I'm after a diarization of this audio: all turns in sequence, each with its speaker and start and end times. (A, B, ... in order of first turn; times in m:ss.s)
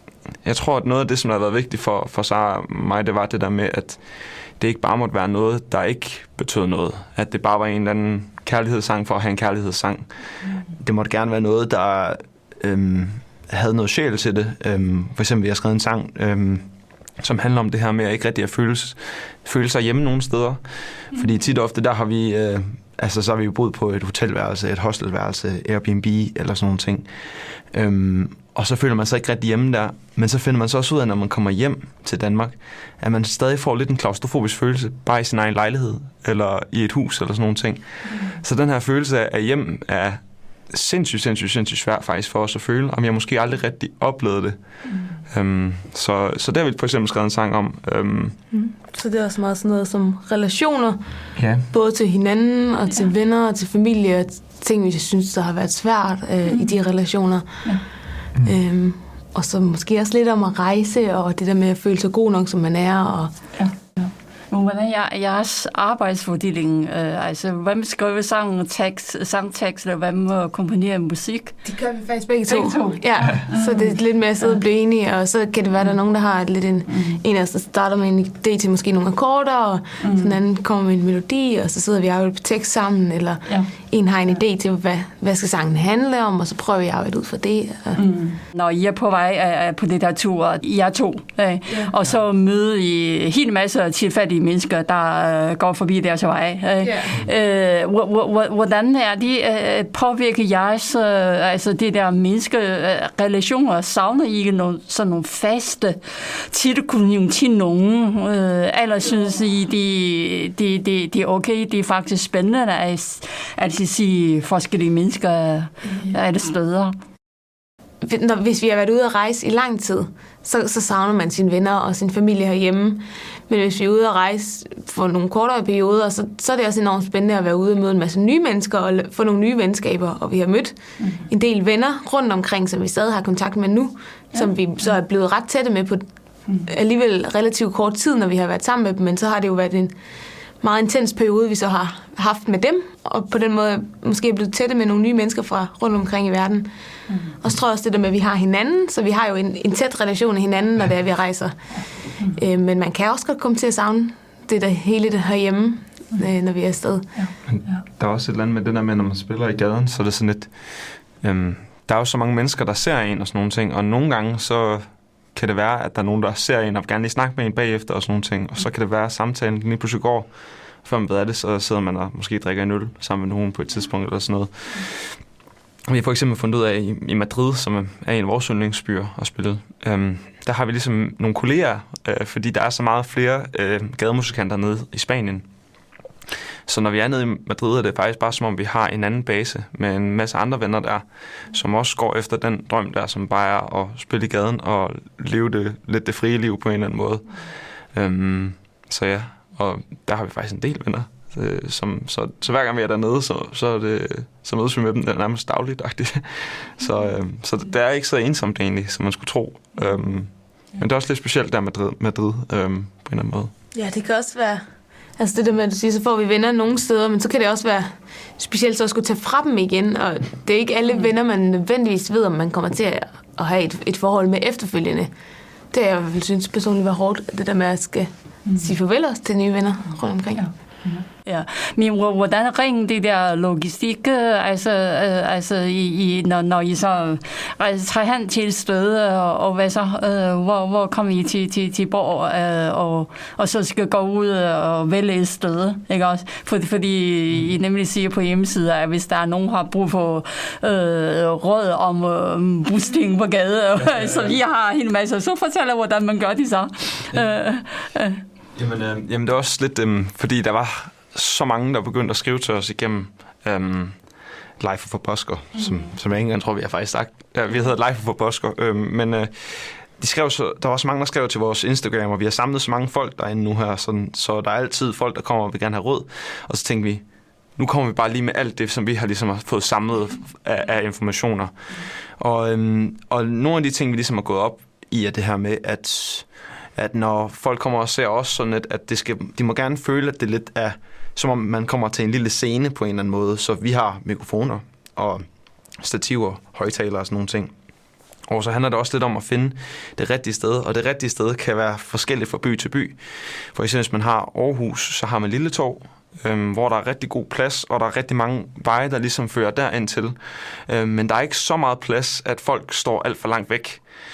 0:00.4-0:48.4 A
0:38.1-0:38.4 B
0:44.8-0:45.2 B
0:48.5-0:51.0 C
0:51.4-0:51.7 A
0:51.7-0:57.6 C
0:56.5-0:56.8 B
0:58.4-1:03.4 C
1:03.6-1:11.6 B
1:11.6-1:28.0 C
1:12.5-1:14.6 B
1:16.9-1:17.2 B
1:20.0-1:20.4 B
1:28.0-1:57.0 B
1:36.8-1:37.2 C
1:58.0-2:16.0 C
2:11.0-2:11.2 B
2:16.6-2:19.9 C
2:20.6-2:26.7 C
2:27.4-2:37.1 C
2:31.7-2:32.4 B
2:37.1-2:37.8 B
2:37.5-2:55.2 A
2:55.9-3:05.5 A
3:06.7-3:33.5 A
3:33.7-3:45.1 C
3:45.7-3:50.4 C
3:48.5-3:48.7 B
3:50.3-4:18.2 B
4:13.8-4:14.4 A
4:18.6-4:55.2 A
4:25.5-4:26.0 B
4:55.8-4:57.5 A
4:58.2-5:13.8 A